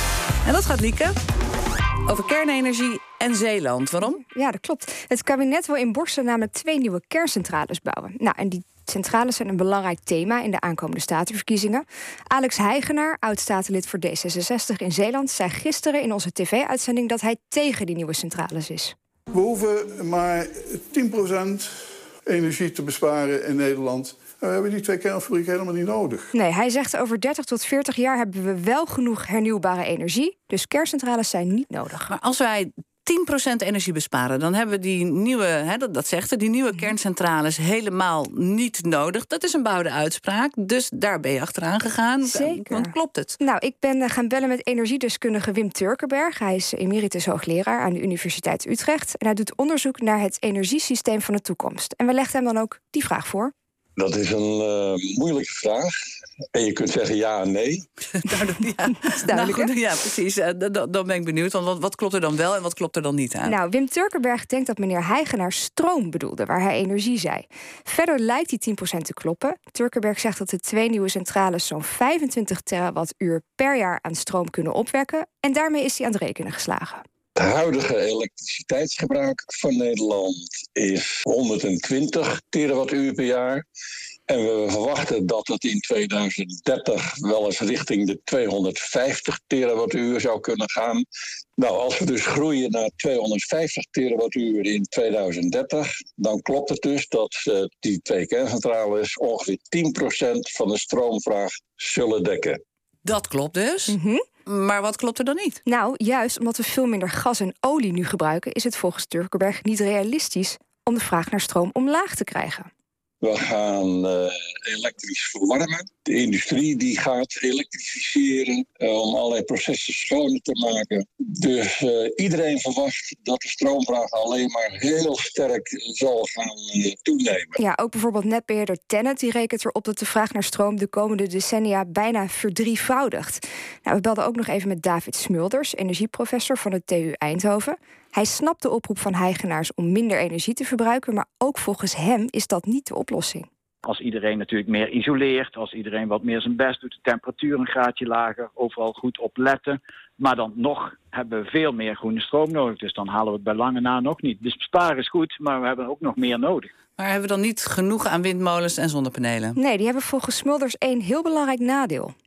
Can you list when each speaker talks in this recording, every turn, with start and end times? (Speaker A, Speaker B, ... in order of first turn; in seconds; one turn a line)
Speaker A: 0.5-1.1
Speaker A: 2.1-4.2
Speaker B: 4.0-18.9
Speaker C: 19.3-21.7
Speaker C: 22.3-26.3
Speaker B: 26.3-32.1
Speaker A: 32.1-43.4
Speaker B: 42.2-53.5
Speaker D: 54.0-55.9
Speaker D: 56.5-57.9
Speaker A: 58.2-63.5
Speaker B: 59.1-59.7
Speaker B: 63.5-77.0
Speaker D: 77.4-83.7
Speaker D: 84.3-91.0
Speaker D: 91.6-102.6
Speaker A: 103.0-104.0
Speaker B: 103.9-104.2
Speaker A: 104.5-105.6
Speaker B: 105.7-112.7
Speaker D: 113.2-127.6
Speaker B: 127.6-143.5
Speaker E: 143.8-156.7
Speaker A: 157.0-159.6
Speaker B: 159.6-162.1